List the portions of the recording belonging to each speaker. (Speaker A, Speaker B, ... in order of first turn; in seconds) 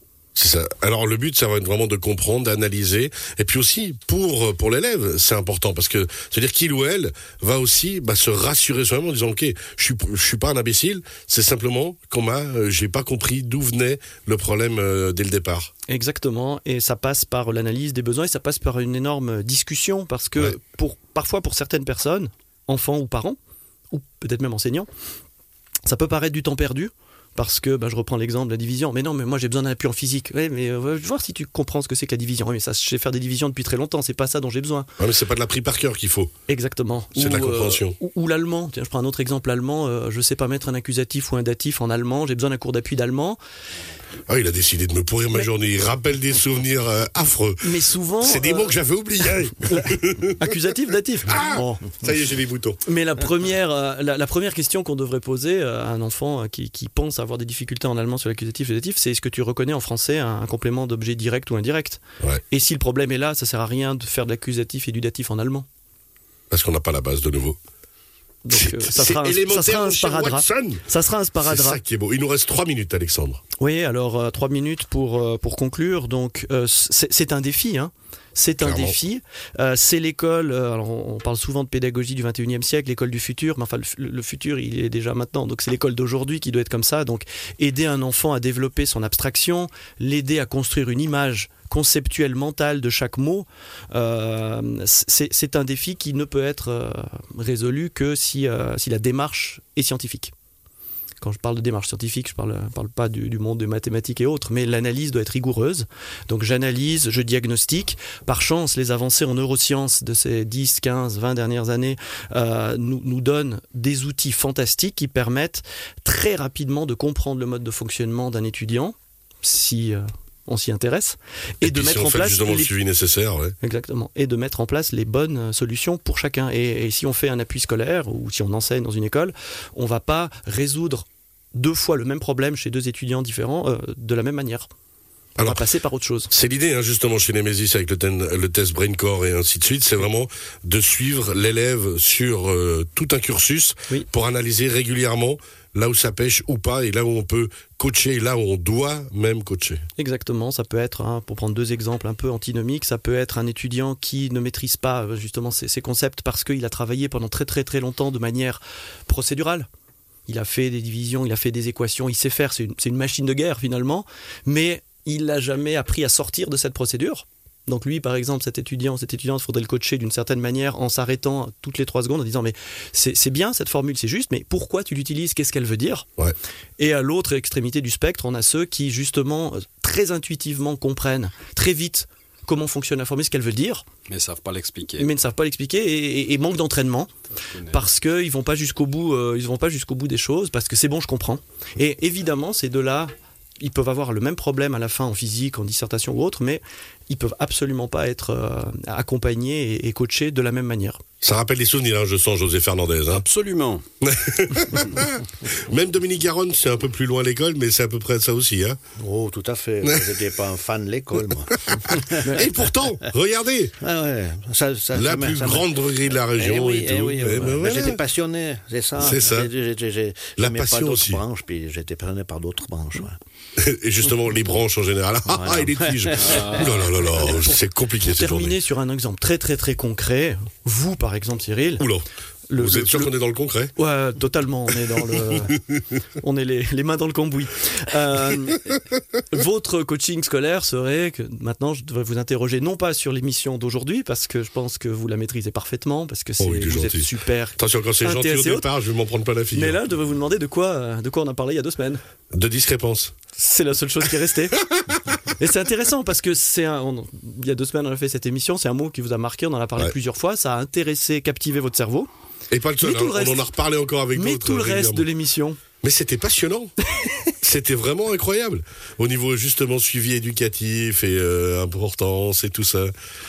Speaker A: 0.4-15.7, 35.0-36.3, 37.1-38.0, 44.3-50.5, 51.3-52.8, 66.5-67.6, 68.5-70.8, 71.5-73.4, 78.6-79.0, 121.6-123.5, 135.4-135.7, 136.3-149.8, 201.2-203.2, 204.0-208.8, 211.7-213.8, 214.9-218.0, 219.0-219.5, 220.4-221.2, 223.6-228.6, 231.8-232.1, 232.6-233.7, 246.4-249.8, 252.3-253.2, 262.5-265.1, 265.8-266.7, 267.4-272.9
Speaker B: 15.9-23.4, 23.9-24.9, 25.9-34.9, 36.5-43.4, 47.6-48.8, 49.7-51.4, 52.9-65.7, 68.5-71.8, 73.6-100.3, 101.2-122.7, 123.6-134.7, 135.4-136.3, 150.0-159.7, 160.3-176.1, 176.8-183.8, 185.0-187.1, 187.7-201.0, 227.2-231.9, 232.5-233.1, 233.8-235.6, 236.2-248.7, 249.5-252.0, 253.4-254.6, 255.2-262.1, 262.8-263.5, 264.1-265.6, 266.9-267.2
Speaker C: 184.1-185.1, 187.4-187.8, 203.1-203.8, 226.2-226.9
Speaker D: 209.0-212.3, 213.8-215.7, 216.4-223.2, 225.3-226.5